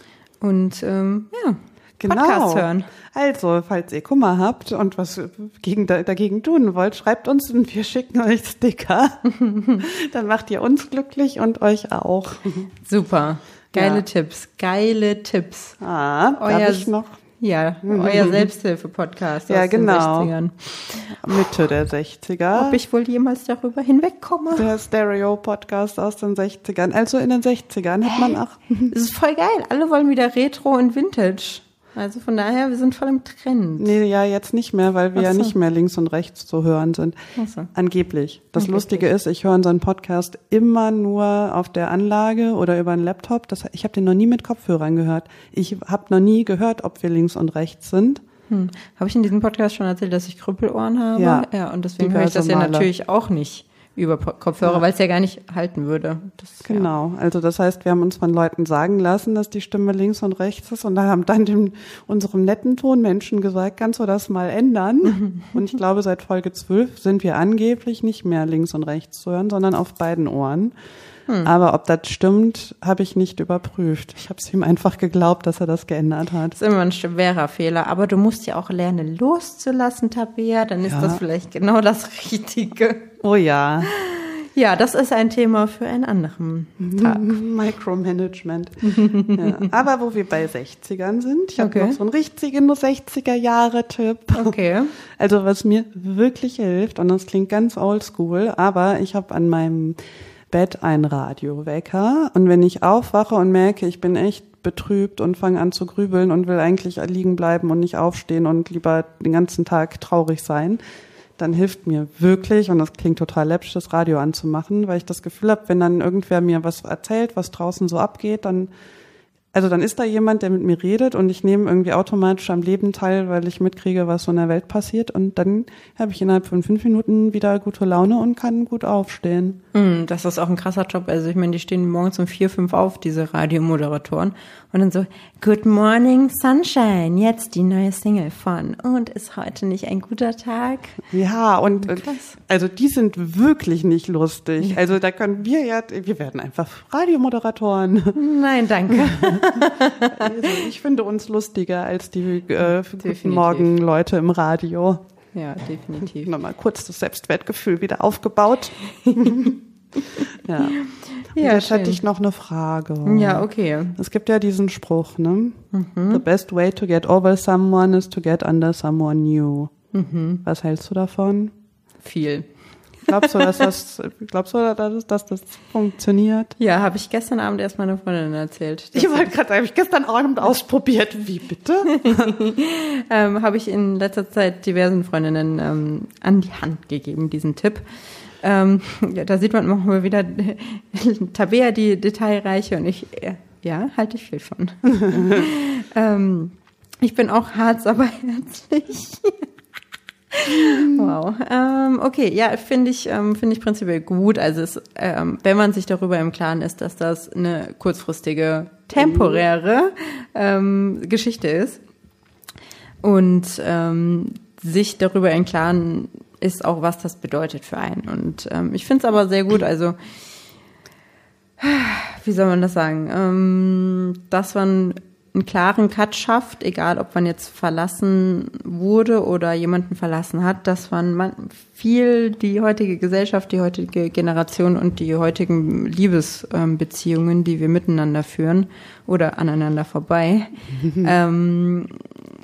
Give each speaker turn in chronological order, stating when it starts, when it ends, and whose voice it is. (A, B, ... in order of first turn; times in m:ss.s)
0:00.4-0:02.9 A
0:02.0-0:09.2 B
0:09.3-0:09.8 A
0:09.8-0:12.7 B
0:12.8-0:15.8 A
0:13.7-0:14.0 B
0:15.8-0:17.2 B
0:16.4-0:21.2 A
0:17.8-0:18.5 B
0:19.5-0:20.3 B
0:21.1-0:22.8 B
0:22.6-0:24.7 A
0:24.6-0:28.9 B
0:28.9-0:34.0 A
0:33.8-0:37.2 B
0:35.2-0:35.5 A
0:37.4-0:37.7 A
0:37.7-0:48.2 B
0:38.6-0:39.0 A
0:48.5-0:56.9 A
0:51.2-0:51.5 B
0:52.0-0:52.9 B
0:56.6-1:10.7 B
1:11.4-1:16.6 B
1:16.6-1:23.1 A
1:20.9-1:21.2 B
1:23.2-1:23.9 B
1:23.8-1:27.3 A
1:26.8-1:34.6 B
1:28.8-1:29.7 A
1:31.6-1:32.0 A
1:34.3-1:34.9 A
1:35.1-1:40.0 B
1:40.5-1:50.8 B
1:51.4-1:58.7 B
1:59.5-2:09.6 B
2:09.7-2:21.0 A
2:21.1-2:28.2 B
2:21.8-2:22.4 A
2:28.2-2:30.6 A
2:28.9-2:35.0 B
2:33.0-2:33.7 A
2:35.3-2:36.3 A
2:36.1-2:39.6 B
2:39.0-2:39.5 A
2:40.2-2:42.0 A
2:40.4-2:40.8 B
2:41.3-2:49.7 B
2:43.0-2:44.0 A
2:45.7-2:46.2 A
2:49.9-2:50.4 A
2:50.4-2:51.6 B
2:52.0-2:52.5 A
2:53.1-2:56.6 B
2:53.1-2:53.5 A
2:56.6-2:59.3 A
2:59.0-3:02.3 B
3:01.9-3:07.8 A
3:08.4-3:19.5 A
3:20.3-3:31.8 A
3:20.5-3:21.1 B
3:29.0-3:29.4 B
3:33.0-3:40.1 A
3:41.6-4:02.0 A
4:00.9-4:01.1 B